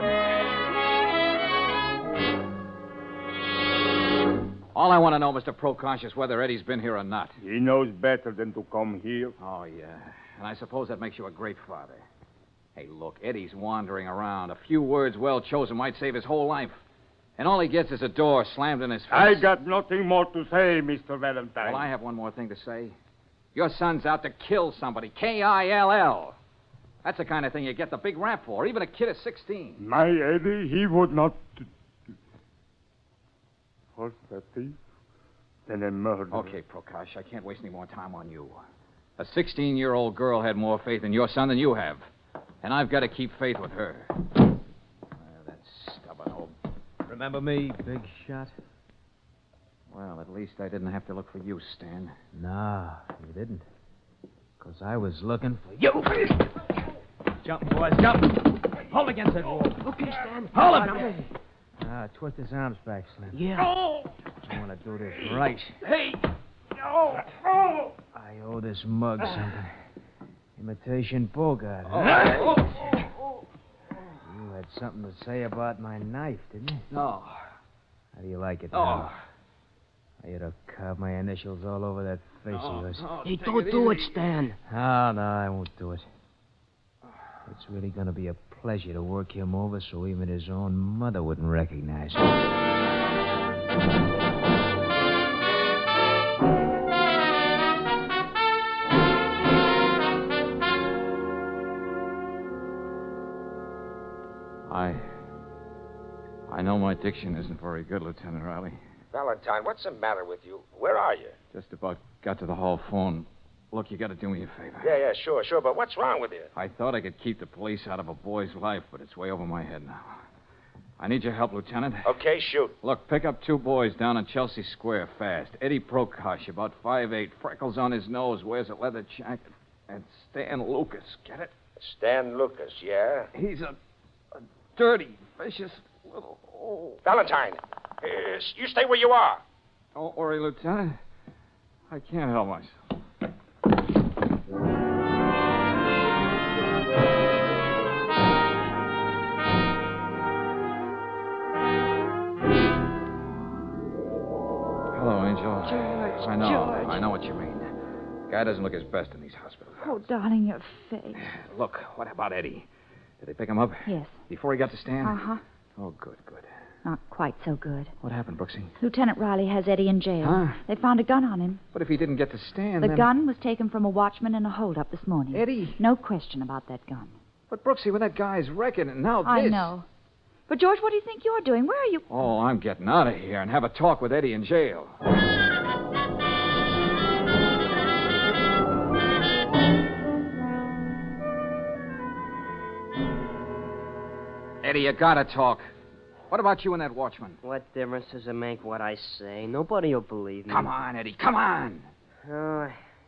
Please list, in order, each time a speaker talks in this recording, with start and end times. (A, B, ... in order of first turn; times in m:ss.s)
0:04.7-0:07.4 A
0:07.4-0:09.3 B
0:09.4-0:12.0 A
0:12.8-0:16.8 A
0:17.4-0:19.5 A
0:19.1-0:21.9 B
0:21.6-0:23.0 A
0:23.6-0:26.4 A
0:27.0-0:29.8 A
0:29.8-0:31.7 B
0:34.0-0:34.8 B
0:35.7-0:36.6 B
0:36.3-0:38.6 A
0:39.2-0:42.0 A
0:42.6-0:44.2 A
0:45.2-0:46.5 A
0:47.1-0:48.5 C
0:49.9-0:52.2 A
0:52.4-0:53.6 C
0:54.6-0:56.4 C
0:57.4-1:01.2 C
0:59.8-1:01.1 D
1:01.8-1:03.7 C
1:03.3-1:03.7 D
1:04.5-1:05.8 C
1:08.1-1:09.7 C
1:10.6-1:12.6 C
1:11.9-1:12.6 A
1:14.3-1:16.9 C
1:16.9-1:17.4 A
1:18.1-1:19.2 C
1:18.7-1:19.1 A
1:20.2-1:23.1 C
1:22.5-1:24.3 A
1:23.2-1:24.6 D
1:24.7-1:26.0 C
1:27.5-1:32.5 C
1:44.7-1:45.1 A
1:46.5-1:48.8 A
1:49.1-1:51.4 E
1:51.5-1:54.9 A
1:54.8-1:56.5 E
1:56.6-2:00.2 A
2:01.0-2:02.2 A
2:02.1-2:02.7 E
2:02.8-2:11.5 A
2:11.8-2:13.3 E
2:13.3-2:13.8 A
2:14.8-2:17.0 A
2:17.0-2:19.4 E
2:20.0-2:21.0 A
2:21.9-2:22.8 A
2:34.9-2:37.7 A
2:35.7-2:37.0 F
2:38.3-2:40.0 A
2:39.8-2:41.3 F
2:41.2-2:42.7 A
2:43.2-2:45.2 A
2:43.9-2:44.2 F
2:45.0-2:45.4 F
2:45.8-2:46.5 A
2:46.8-2:47.9 F
2:48.0-2:48.7 A
2:48.8-2:51.6 F
2:50.2-2:50.6 A
2:51.7-2:53.1 A
2:52.8-2:57.1 F
2:55.3-2:55.8 A
2:57.5-2:59.7 A
2:59.2-2:59.9 F
3:00.5-3:02.1 F
3:02.1-3:04.9 A
3:14.6-3:15.6 A
3:16.3-3:17.4 A
3:17.4-3:20.7 D
3:20.5-3:21.9 A
3:22.2-3:22.8 D